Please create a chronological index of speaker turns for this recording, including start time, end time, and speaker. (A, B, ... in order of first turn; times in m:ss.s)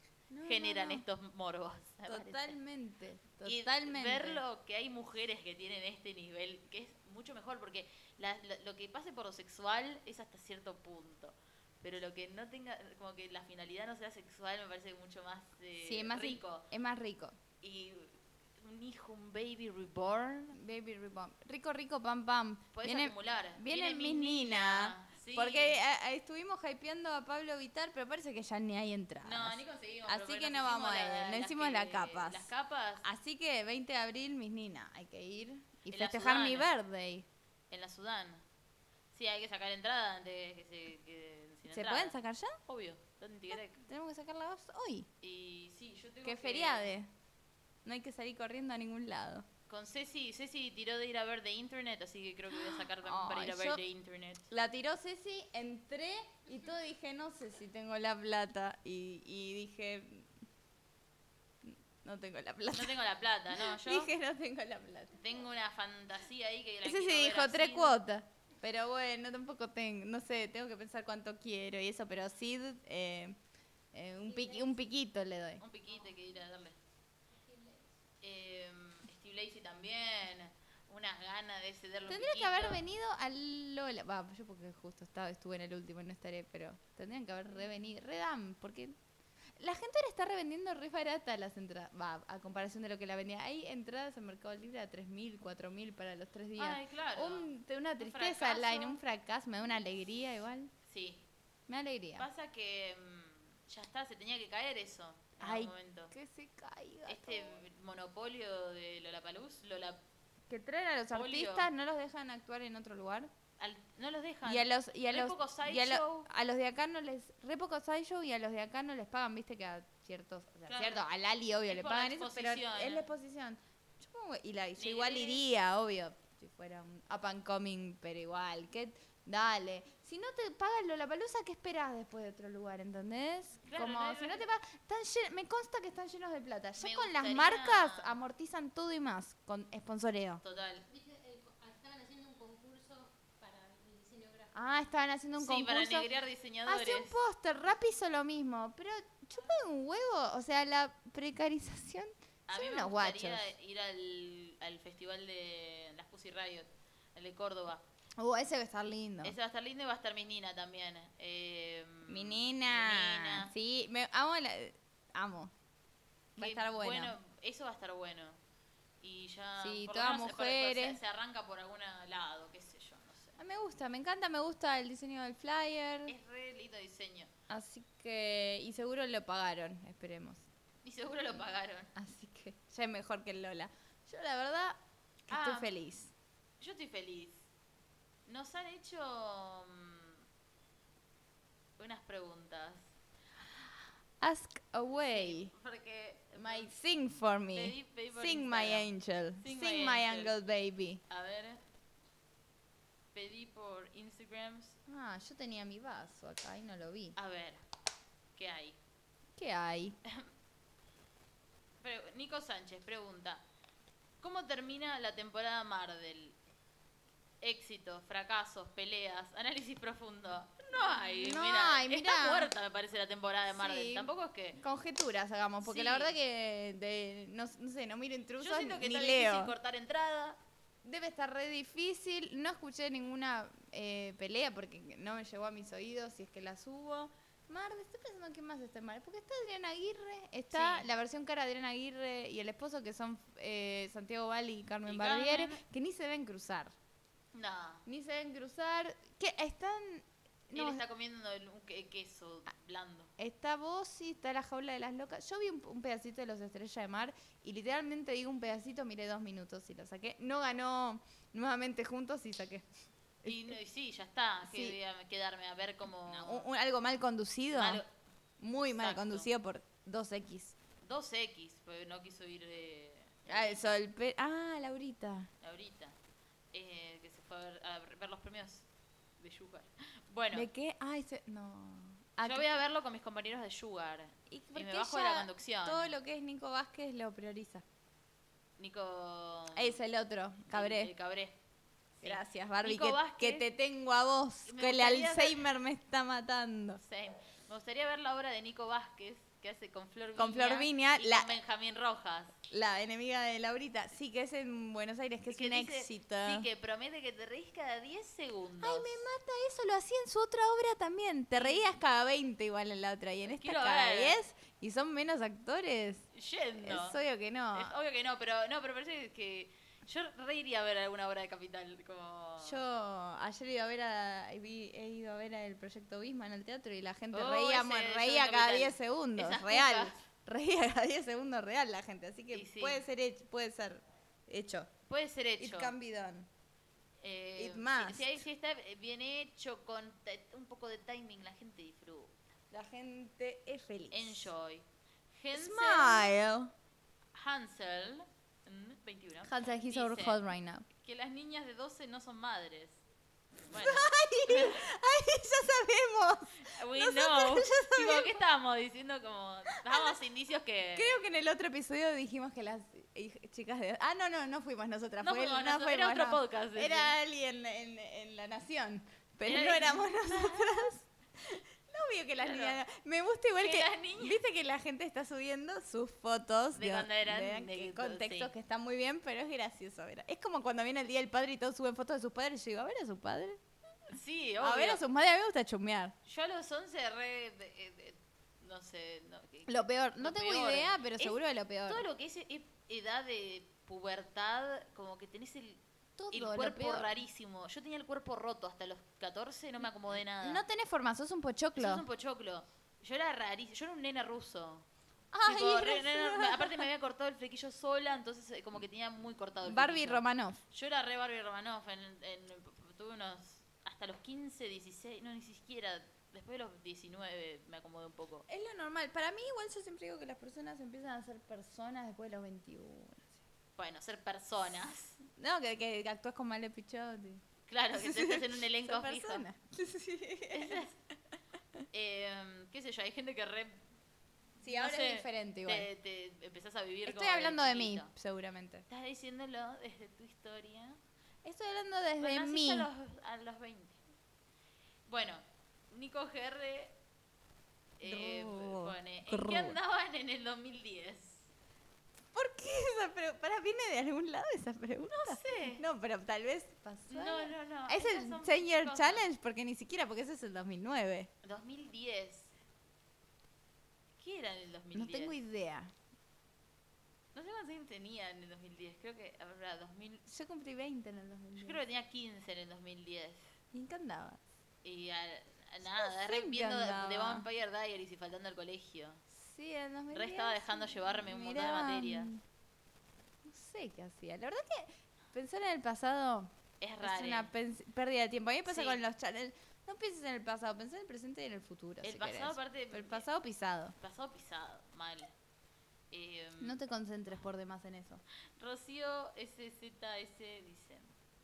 0:00.3-0:01.0 A
0:00.4-0:02.6 B
0:02.0-0:04.4 A
0:03.4-0:16.7 B
0:15.8-0:17.4 A
0:17.6-0:20.6 B
0:20.5-0:32.5 A
0:22.7-0:25.8 B
0:29.2-0:33.0 B
0:33.0-0:37.2 A
0:35.9-0:36.7 B
0:37.7-0:38.4 B
0:39.1-0:43.8 B
0:41.7-0:42.6 A
0:43.8-0:45.1 A
0:45.2-0:47.0 B
0:46.2-0:47.1 A
0:47.8-0:49.4 A
0:49.7-0:54.5 B
0:52.5-0:53.8 A
0:54.5-1:00.3 A
1:01.6-1:03.0 A
1:02.7-1:04.1 B
1:03.5-1:05.2 A
1:05.2-1:08.0 B
1:06.8-1:13.4 A
1:13.9-1:15.6 A
1:14.3-1:14.8 C
1:15.6-1:16.8 B
1:15.9-1:16.2 C
1:17.3-1:18.0 C
1:18.2-1:22.8 B
1:22.1-1:28.9 A
1:29.6-1:40.7 A
1:36.6-1:39.0 B
1:40.9-1:41.2 B
1:41.7-1:42.3 A
1:42.2-1:46.1 B
1:45.4-1:47.6 A
1:47.0-1:50.0 B
1:50.5-1:53.3 A
1:51.1-1:51.7 B
1:53.6-1:56.3 B
1:54.4-2:20.4 A
2:00.7-2:01.0 B
2:01.7-2:03.1 B
2:04.8-2:05.4 B
2:13.7-2:14.4 B
2:16.8-2:18.2 B
2:20.4-2:20.8 B
2:20.9-2:24.9 C
2:24.5-2:26.1 A
2:25.4-2:27.2 B
2:26.6-2:33.5 A
2:32.5-2:37.8 B
2:38.2-2:39.3 A
2:39.2-2:43.5 B
2:42.1-2:45.5 A
2:46.4-2:47.1 A
2:46.4-2:48.4 B
2:49.0-2:53.4 B
2:49.6-2:51.0 A
2:53.4-2:56.1 A
2:56.0-2:57.3 B
2:57.5-3:00.4 A
3:00.8-3:01.9 B
3:02.0-3:06.1 A
3:05.3-3:05.7 B
3:06.6-3:07.4 B
3:08.3-3:10.2 B
3:11.8-3:12.9 B
3:14.2-3:15.5 A
3:14.9-3:16.7 B
3:16.3-3:21.0 A
3:17.5-3:20.4 B
3:21.1-3:21.6 B
3:23.1-3:24.8 B
3:24.9-3:27.2 A
3:27.2-3:27.6 B
3:28.4-3:28.8 B
3:29.4-3:30.0 A
3:31.8-3:33.4 B
3:34.2-3:36.4 B
3:37.4-3:44.6 B
3:40.8-3:42.5 A
3:43.5-3:49.5 A
3:45.6-3:46.1 B
3:48.4-3:50.4 B
3:50.8-4:06.7 A
4:00.5-4:00.9 B
4:04.8-4:05.6 B
4:07.3-4:07.8 B
4:07.8-4:10.8 A
4:10.5-4:13.1 B
4:13.2-4:22.6 A
4:23.2-4:23.5 A
4:23.2-4:26.5 B
4:24.4-4:24.8 A
4:26.0-4:27.8 A
4:27.5-4:27.9 B
4:28.4-4:30.6 A
4:28.7-4:29.3 B
4:30.8-4:33.7 B
4:33.3-4:35.3 A
4:35.4-4:35.9 B
4:36.5-4:38.6 B
4:39.2-4:40.5 B
4:40.3-4:42.5 A
4:42.2-4:45.9 B
4:44.3-4:47.6 A
4:48.6-4:49.8 B
4:49.6-4:50.9 A
4:50.5-4:51.4 B
4:52.0-4:53.5 B
4:52.0-4:56.8 A
4:54.4-4:55.4 B
4:56.8-5:02.3 B
5:00.2-5:01.3 A
5:02.5-5:06.4 A
5:05.3-5:09.0 B
5:08.6-5:16.0 A
5:11.3-5:11.7 B
5:13.3-5:14.2 B
5:16.1-5:17.0 B
5:16.6-5:17.7 A
5:17.5-5:22.6 B
5:22.4-5:34.7 A
5:27.1-5:30.0 B
5:32.3-5:32.8 B
5:34.9-5:35.7 B
5:35.4-5:36.3 A
5:37.0-5:42.2 B
5:37.4-5:38.2 A
5:42.5-5:44.3 A
5:43.9-5:46.1 B
5:45.3-5:46.5 A
5:47.1-5:50.2 B
5:49.2-5:50.6 A
5:50.7-5:52.8 B
5:53.5-5:54.7 B
5:53.5-5:58.2 A
5:56.4-6:01.0 B
5:59.5-6:00.0 A
6:00.7-6:23.4 A
6:05.0-6:06.9 B
6:09.2-6:10.7 B
6:12.2-6:12.6 B
6:13.4-6:14.2 B
6:16.6-6:18.3 B
6:23.9-6:24.8 B
6:24.4-6:25.9 A
6:26.0-6:40.4 B
6:29.5-6:31.8 A
6:36.0-6:36.9 A
6:40.1-6:41.8 A
6:41.5-6:44.6 B
6:45.1-6:46.7 A
6:45.2-6:58.2 B
6:49.4-6:50.4 A
6:58.3-7:03.2 A
7:03.6-7:05.0 B
7:05.0-7:07.2 A
7:07.5-7:09.2 B
7:07.7-7:10.6 A
7:10.3-7:10.8 B
7:11.7-7:13.6 B
7:14.4-7:17.9 B
7:14.4-7:15.7 A
7:16.8-7:18.6 A
7:18.7-7:20.8 B
7:21.2-7:22.7 A
7:22.0-7:23.8 B
7:24.9-7:26.7 B
7:27.8-7:31.3 B
7:27.8-7:29.6 A
7:32.1-7:41.1 A
7:35.0-7:35.6 B
7:36.9-7:39.1 B
7:41.2-7:42.3 B
7:44.0-7:45.2 B
7:44.7-7:45.7 A
7:47.1-7:50.1 B
7:50.1-7:51.6 A
7:51.4-7:53.2 B
7:53.5-7:54.2 A
7:54.6-7:59.0 B
7:55.6-7:57.3 A
7:59.1-8:02.2 A
7:59.9-8:02.1 B
8:03.2-8:13.7 A
8:06.6-8:07.3 B
8:08.4-8:08.8 B
8:11.8-8:13.1 B
8:13.8-8:15.1 B
8:15.9-8:16.6 B
8:16.4-8:18.0 A
8:18.4-8:20.9 B